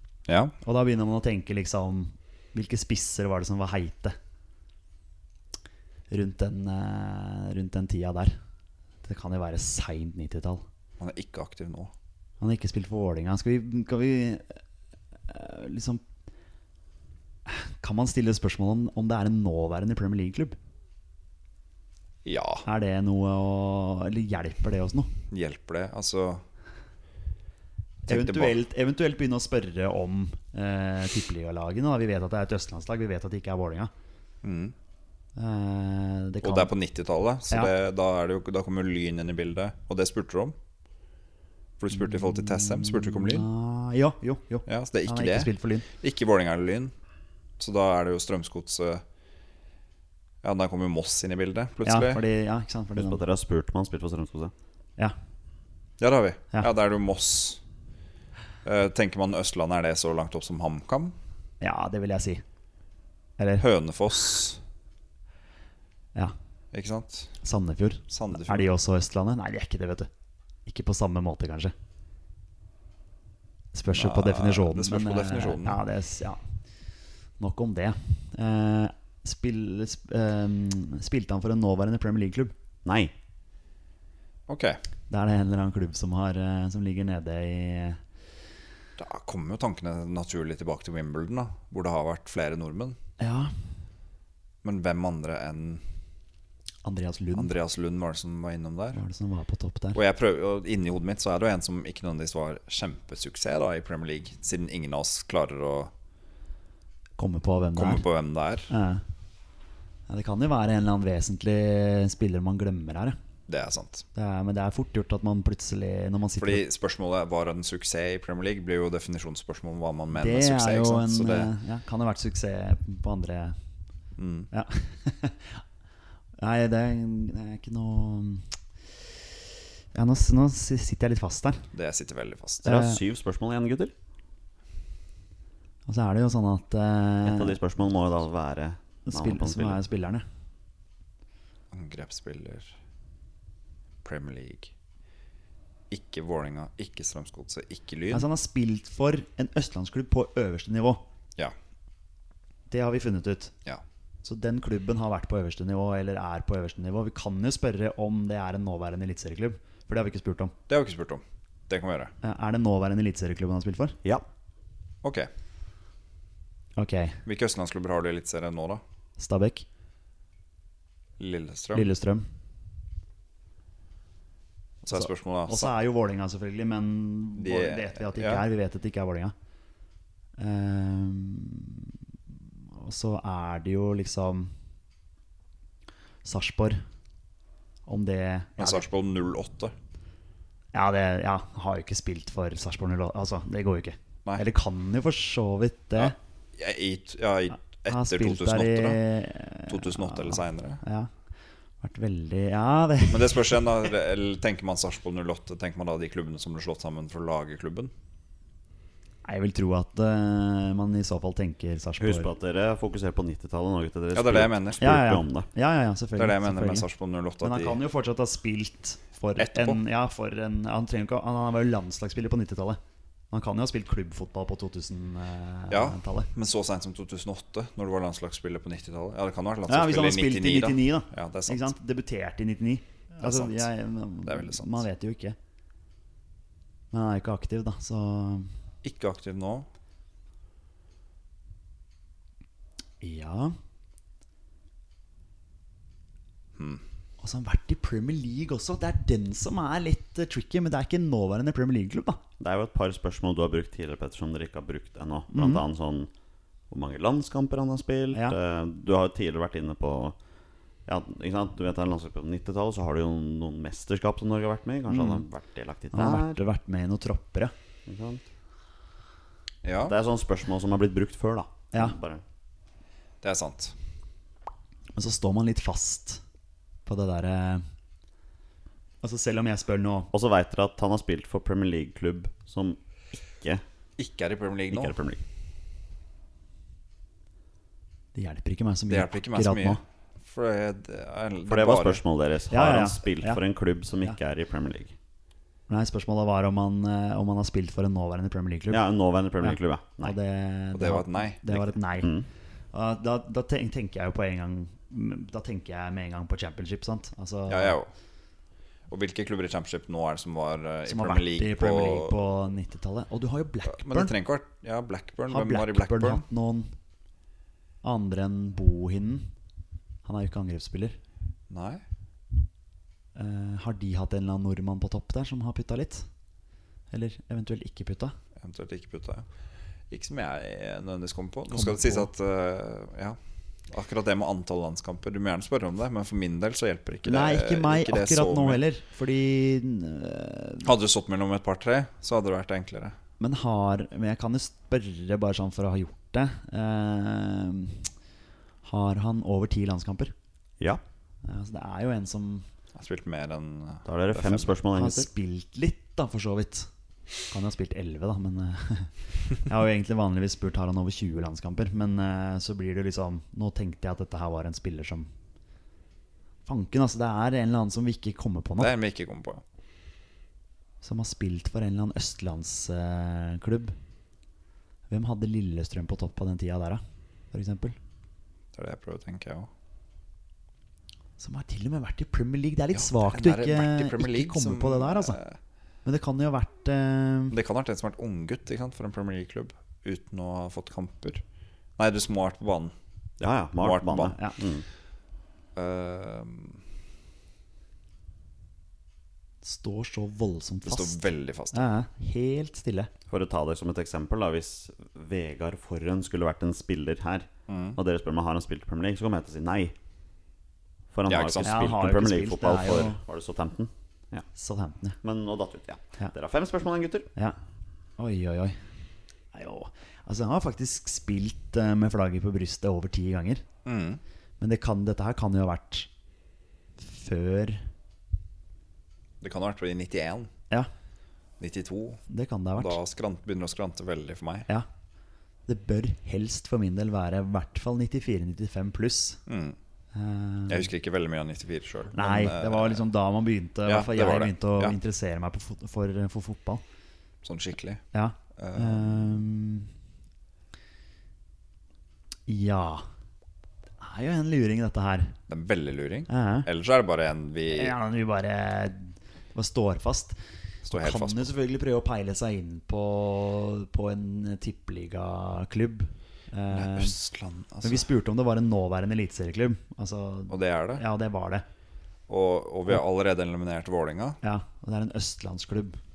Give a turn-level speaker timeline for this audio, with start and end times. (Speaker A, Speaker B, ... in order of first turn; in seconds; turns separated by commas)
Speaker A: 0.3-0.5, Speaker B: 0.6-4.2, Speaker B: 6.1-8.4, Speaker B: 9.0-10.6, Speaker A: 11.0-11.9, Speaker B: 12.4-14.6, Speaker B: 15.3-16.0, Speaker B: 17.5-20.6, Speaker A: 22.2-22.7, Speaker B: 22.6-25.1, Speaker A: 25.3-26.4, Speaker A: 28.1-28.6, Speaker B: 28.1-33.9, Speaker A: 34.4-34.8, Speaker B: 35.4-36.7, Speaker A: 36.4-40.6, Speaker A: 41.8-43.5, Speaker B: 42.0-45.9, Speaker A: 44.7-46.9, Speaker A: 47.6-49.0, Speaker A: 50.4-52.2, Speaker B: 51.8-53.2, Speaker C: 53.0-54.5, Speaker A: 56.0-57.6, Speaker A: 58.6-61.1, Speaker B: 61.6-62.4, Speaker B: 63.4-63.7, Speaker A: 63.6-64.6, Speaker A: 66.7-67.4, Speaker B: 67.4-70.1, Speaker A: 68.1-68.7, Speaker B: 70.7-71.7, Speaker B: 73.7-76.4, Speaker A: 73.9-75.8, Speaker B: 77.4-82.5, Speaker C: 82.8-83.1, Speaker A: 84.5-84.8, Speaker B: 85.1-88.0, Speaker A: 89.0-93.0, Speaker B: 93.2-93.5, Speaker A: 94.6-95.8, Speaker B: 96.8-97.5, Speaker A: 97.3-99.0, Speaker B: 98.9-100.0, Speaker A: 99.9-105.9, Speaker B: 107.2-108.0, Speaker A: 107.8-108.7, Speaker B: 108.7-109.0, Speaker B: 110.1-113.2, Speaker A: 113.5-114.0, Speaker B: 114.2-116.6, Speaker A: 116.4-121.5, Speaker B: 120.1-123.6, Speaker A: 124.2-124.5, Speaker B: 124.5-125.6, Speaker B: 126.4-128.5, Speaker B: 129.9-131.7, Speaker A: 131.7-132.7, Speaker C: 132.6-133.9, Speaker B: 132.7-133.0, Speaker B: 135.9-137.6, Speaker C: 137.2-139.8, Speaker B: 139.1-140.2, Speaker A: 141.7-142.8, Speaker A: 144.0-144.7, Speaker A: 145.9-148.3, Speaker B: 148.1-151.0, Speaker B: 152.7-153.5, Speaker B: 154.2-160.5, Speaker A: 160.7-162.1, Speaker B: 162.2-164.0, Speaker A: 165.0-165.3, Speaker B: 166.8-167.2, Speaker A: 167.3-168.8, Speaker B: 169.2-169.7, Speaker A: 171.2-171.9, Speaker B: 171.7-172.3, Speaker B: 174.8-179.3, Speaker A: 174.8-175.7, Speaker A: 177.4-178.4, Speaker B: 180.4-181.9, Speaker B: 182.8-184.5, Speaker B: 186.2-186.8, Speaker B: 187.9-188.8, Speaker A: 188.6-189.8, Speaker B: 190.7-196.2, Speaker A: 196.0-199.0, Speaker B: 197.9-201.1, Speaker A: 199.7-200.8, Speaker B: 201.8-203.8, Speaker A: 203.1-207.9, Speaker B: 209.2-212.3, Speaker C: 212.0-215.5, Speaker A: 214.1-214.9, Speaker B: 214.8-216.9, Speaker A: 216.2-217.8, Speaker B: 217.4-222.8, Speaker A: 219.4-219.8, Speaker B: 223.3-226.3, Speaker A: 225.7-231.7, Speaker B: 229.7-235.4, Speaker A: 233.2-233.7, Speaker A: 234.3-234.8, Speaker B: 236.9-238.5, Speaker A: 238.8-239.7, Speaker B: 243.0-243.6, Speaker A: 246.6-246.8, Speaker B: 247.2-252.2, Speaker C: 252.4-256.1, Speaker B: 255.3-255.6, Speaker C: 256.7-260.2, Speaker C: 260.9-266.4, Speaker B: 264.9-265.2, Speaker B: 265.9-267.5, Speaker C: 267.9-268.2, Speaker A: 269.6-269.9, Speaker C: 269.9-272.2, Speaker A: 273.2-273.8, Speaker B: 274.9-276.2, Speaker B: 276.9-277.6, Speaker B: 279.0-280.1, Speaker C: 280.1-283.6, Speaker A: 284.0-285.0, Speaker C: 284.7-285.2, Speaker B: 288.1-289.8, Speaker A: 288.9-292.0, Speaker C: 291.5-294.9, Speaker B: 292.5-293.4, Speaker B: 295.7-298.8, Speaker C: 298.7-300.2, Speaker B: 299.4-302.1, Speaker A: 300.7-301.6, Speaker C: 302.0-302.3, Speaker B: 302.7-307.8, Speaker A: 307.5-307.9, Speaker A: 308.9-312.2, Speaker B: 310.9-314.1, Speaker A: 313.7-316.2, Speaker B: 315.3-316.8, Speaker B: 317.8-319.3, Speaker B: 320.1-321.0, Speaker A: 321.5-321.8, Speaker B: 323.2-326.1, Speaker B: 326.9-328.1, Speaker A: 328.4-329.3, Speaker A: 329.9-333.2, Speaker B: 331.5-332.1, Speaker A: 333.7-338.6, Speaker B: 337.1-340.7, Speaker A: 340.6-343.0, Speaker B: 343.2-347.9, Speaker B: 348.6-350.1, Speaker B: 351.2-352.5, Speaker A: 352.8-354.5, Speaker C: 353.9-355.1, Speaker B: 354.7-356.7, Speaker B: 357.3-365.1, Speaker B: 366.5-368.7, Speaker A: 368.6-369.4, Speaker B: 370.8-373.8, Speaker B: 374.9-376.8, Speaker B: 377.3-377.8, Speaker A: 378.5-379.5, Speaker B: 381.2-385.2, Speaker A: 382.7-385.4, Speaker B: 385.9-387.4, Speaker A: 387.3-391.2, Speaker A: 391.8-392.7, Speaker C: 393.2-394.6, Speaker A: 393.6-394.2, Speaker B: 394.0-394.4, Speaker A: 395.6-396.6, Speaker B: 399.4-401.0, Speaker A: 400.6-401.6, Speaker B: 401.5-402.9, Speaker C: 403.1-409.7, Speaker A: 407.5-407.8, Speaker C: 410.9-414.3, Speaker A: 411.1-411.5, Speaker B: 411.4-413.0, Speaker B: 414.4-415.0, Speaker C: 415.0-417.1, Speaker B: 418.0-418.6, Speaker B: 419.3-423.4, Speaker A: 423.6-424.0, Speaker B: 424.4-425.9, Speaker B: 426.8-427.7, Speaker A: 429.2-430.3, Speaker A: 431.4-432.0, Speaker B: 432.1-432.8, Speaker A: 432.6-434.5, Speaker B: 435.5-439.2, Speaker A: 439.3-439.6, Speaker B: 439.9-440.7, Speaker A: 440.5-442.8, Speaker B: 441.9-446.6, Speaker A: 443.7-444.8, Speaker A: 447.2-447.8, Speaker B: 447.9-449.7, Speaker A: 448.4-449.1, Speaker B: 452.3-452.9, Speaker B: 453.8-455.2, Speaker A: 455.3-457.8, Speaker B: 456.1-456.5, Speaker B: 457.5-460.2, Speaker A: 460.6-461.3, Speaker B: 460.7-466.9, Speaker A: 466.5-467.9, Speaker B: 467.6-471.4, Speaker A: 470.3-470.8, Speaker A: 472.1-474.2, Speaker B: 474.2-475.8